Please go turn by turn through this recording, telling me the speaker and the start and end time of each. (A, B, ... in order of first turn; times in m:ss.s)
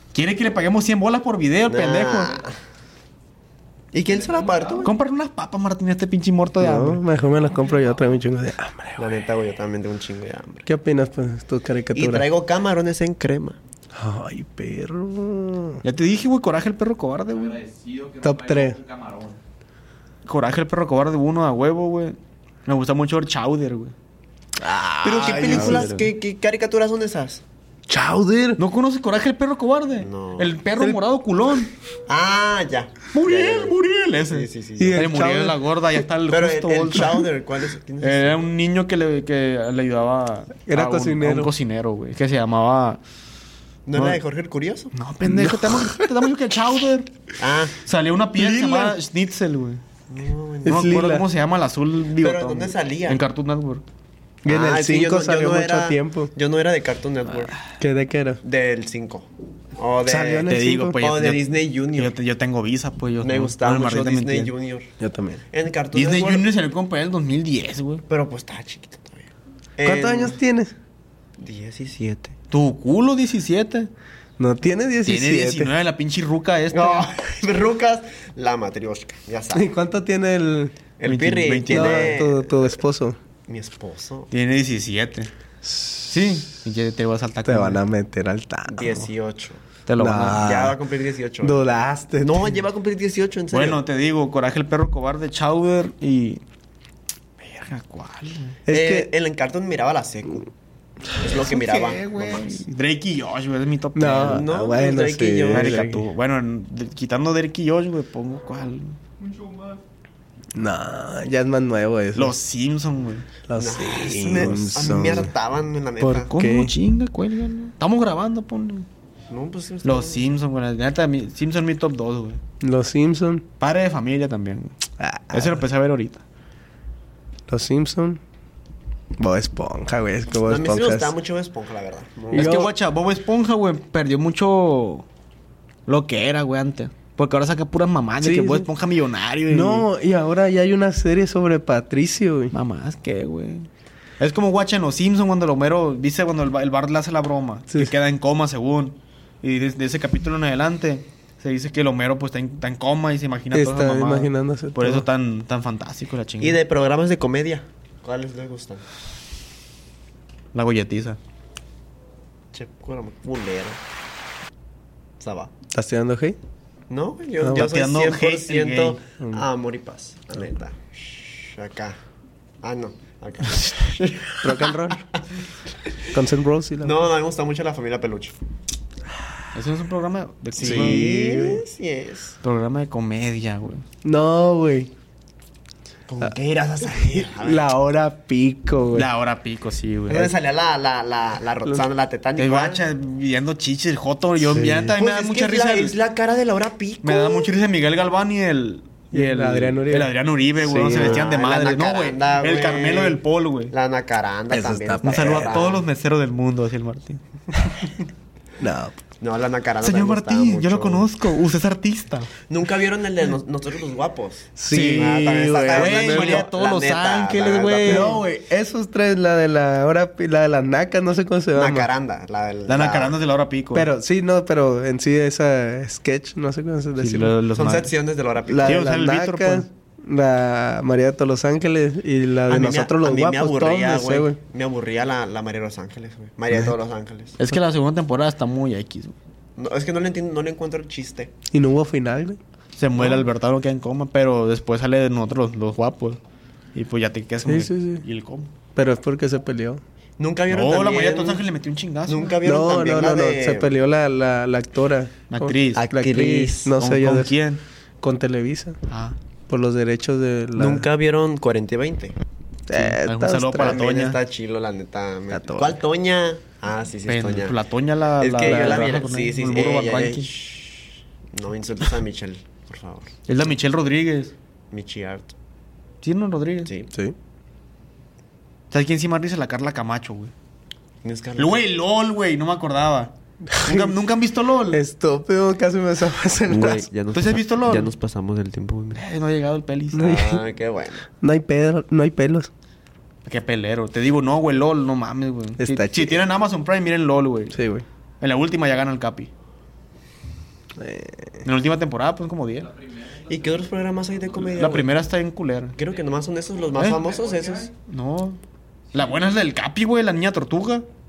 0:00.1-0:02.4 A
0:01.7-0:02.5 B
0:03.9-0:04.9 B
0:04.0-0:04.9 C
0:04.8-0:07.0 A
0:06.6-0:09.2 D
0:07.5-0:08.0 C
0:09.0-0:10.7 B
0:10.6-0:12.3 D
0:11.9-0:13.6 B
0:13.9-0:15.8 D
0:15.8-0:17.6 A
0:17.3-0:19.4 C
0:18.2-0:18.8 D
0:20.2-0:23.9 A
0:24.6-0:26.0 D
0:25.0-0:27.4 B
0:25.1-0:26.0 A
0:27.9-0:28.6 D
0:28.6-0:31.7 A
0:30.0-0:30.6 B
0:32.1-0:33.7 B
0:33.1-0:37.2 A
0:34.2-0:35.1 B
0:34.8-0:35.6 D
0:36.3-0:38.4 B
0:38.0-0:43.0 A
0:40.7-0:41.5 D
0:43.8-0:44.9 B
0:43.9-0:44.2 A
0:44.9-0:47.1 A
0:45.2-0:46.2 D
0:47.4-0:47.8 B
0:47.8-0:49.8 A
0:48.3-0:49.0 D
0:50.1-0:50.9 B
0:50.6-0:51.2 D
0:50.7-0:53.8 A
0:52.2-0:53.2 B
0:54.4-0:56.3 D
0:54.4-0:57.6 B
0:57.8-0:58.4 D
0:58.4-1:02.1 B
1:00.0-1:01.0 D
1:00.4-1:04.5 A
1:03.2-1:04.9 B
1:05.0-1:05.4 D
1:05.5-1:06.5 B
1:05.9-1:08.0 A
1:08.1-1:10.4 B
1:09.8-1:10.7 D
1:11.4-1:12.3 B
1:12.5-1:13.9 A
1:14.4-1:15.7 D
1:15.0-1:17.1 A
1:16.7-1:19.7 B
1:19.5-1:20.8 D
1:21.0-1:22.8 B
1:21.0-1:22.2 A
1:21.7-1:23.2 D
1:23.5-1:24.3 B
1:24.3-1:25.3 A
1:26.0-1:27.8 A
1:27.4-1:29.0 D
1:28.7-1:29.6 B
1:29.9-1:30.5 A
1:30.0-1:30.8 D
1:30.3-1:31.6 B
1:31.4-1:32.5 D
1:32.2-1:33.8 B
1:33.5-1:36.4 A
1:37.4-1:38.6 A
1:38.6-1:39.1 D
1:38.7-1:40.5 B
1:41.2-1:42.6 B
1:41.2-1:44.4 A
1:43.9-1:46.0 D
1:44.2-1:45.9 B
1:45.5-1:49.0 A
1:49.2-1:49.8 C
1:50.5-1:52.4 D
1:52.1-1:53.2 A
1:53.5-1:55.3 D
1:53.6-1:56.3 B
1:56.0-1:58.9 A
1:56.3-1:56.7 D
1:59.3-2:00.3 B
1:59.8-2:02.4 A
2:02.6-2:03.4 D
2:03.6-2:04.7 A
2:05.0-2:05.6 D
2:05.3-2:06.2 A
2:07.5-2:08.2 D
2:09.2-2:11.1 D
2:10.4-2:12.7 B
2:12.3-2:12.7 D
2:12.3-2:15.0 A
2:15.9-2:19.9 A
2:18.2-2:18.7 D
2:19.5-2:22.5 D
2:22.5-2:23.7 A
2:24.2-2:36.6 A
2:33.5-2:35.0 D
2:36.4-2:38.8 B
2:40.5-2:41.2 A
2:42.5-2:43.8 B
2:45.2-2:45.5 B
2:45.7-2:46.4 D
2:46.9-2:52.0 B
2:47.4-2:47.7 D
2:47.5-2:49.0 A
2:49.2-2:49.4 D
2:52.6-2:54.9 B
2:54.4-2:55.0 D
2:56.1-2:57.0 D
2:56.8-2:58.4 B
2:59.5-3:01.4 A
3:00.5-3:02.4 B
3:00.6-3:01.6 D
3:02.4-3:03.8 A
3:04.0-3:04.9 D
3:06.1-3:07.6 B
3:06.9-3:09.1 D
3:08.9-3:10.3 A
3:10.1-3:12.8 B
3:12.4-3:16.0 A
3:14.4-3:14.9 D
3:14.9-3:17.5 B
3:17.0-3:23.7 A
3:19.1-3:21.3 D
3:20.9-3:25.8 B
3:24.5-3:25.6 D
3:25.0-3:27.2 A
3:28.6-3:29.0 D
3:29.2-3:31.1 B
3:29.8-3:32.3 A
3:32.5-3:38.2 B
3:34.6-3:36.5 D
3:34.7-3:38.2 A
3:37.8-3:41.9 D
3:41.5-3:43.2 B
3:42.7-3:43.9 A
3:43.7-3:47.3 D
3:47.0-3:47.9 A
3:47.5-3:48.8 B
3:48.5-3:54.4 D
3:48.6-3:49.7 A
3:52.5-3:57.4 B
3:57.4-3:59.2 A
3:59.6-4:01.3 B
4:01.5-4:02.4 D
4:02.8-4:06.2 A
4:03.0-4:03.2 B
4:06.7-4:08.5 A
4:07.4-4:08.0 D
4:08.7-4:09.8 D
4:10.2-4:11.4 B
4:10.5-4:12.4 A
4:12.0-4:13.7 B
4:12.4-4:17.4 D
4:15.3-4:15.9 A
4:15.7-4:16.8 B
4:16.8-4:17.6 A
4:18.0-4:18.8 D
4:18.9-4:19.2 A
4:19.5-4:20.9 D
4:20.6-4:22.2 B
4:22.7-4:23.8 D
4:22.7-4:24.2 A
4:23.6-4:27.6 B
4:25.3-4:25.8 D
4:27.1-4:30.3 A
4:28.2-4:33.1 B
4:28.4-4:28.8 D
4:33.3-4:34.3 A
4:34.7-4:35.3 B
4:36.0-4:36.7 A
4:36.6-4:36.9 B
4:38.7-4:40.3 A
4:41.0-4:41.6 B
4:41.4-4:44.8 A
4:43.4-4:43.9 D
4:44.7-4:46.9 D
4:46.5-4:49.0 B
4:47.1-4:47.9 A
4:48.9-4:50.1 A
4:49.9-4:50.4 D
4:50.0-4:51.0 B
4:51.2-4:52.5 D
4:53.2-4:57.6 A
4:55.6-4:56.3 D
4:57.5-4:57.8 D
4:58.2-4:59.3 A
5:00.8-5:01.4 D
5:01.4-5:02.7 A
5:02.6-5:04.6 C
5:03.3-5:04.9 B
5:04.5-5:05.8 A
5:05.8-5:07.7 B
5:06.6-5:07.7 C
5:07.9-5:08.4 A
5:08.9-5:10.8 A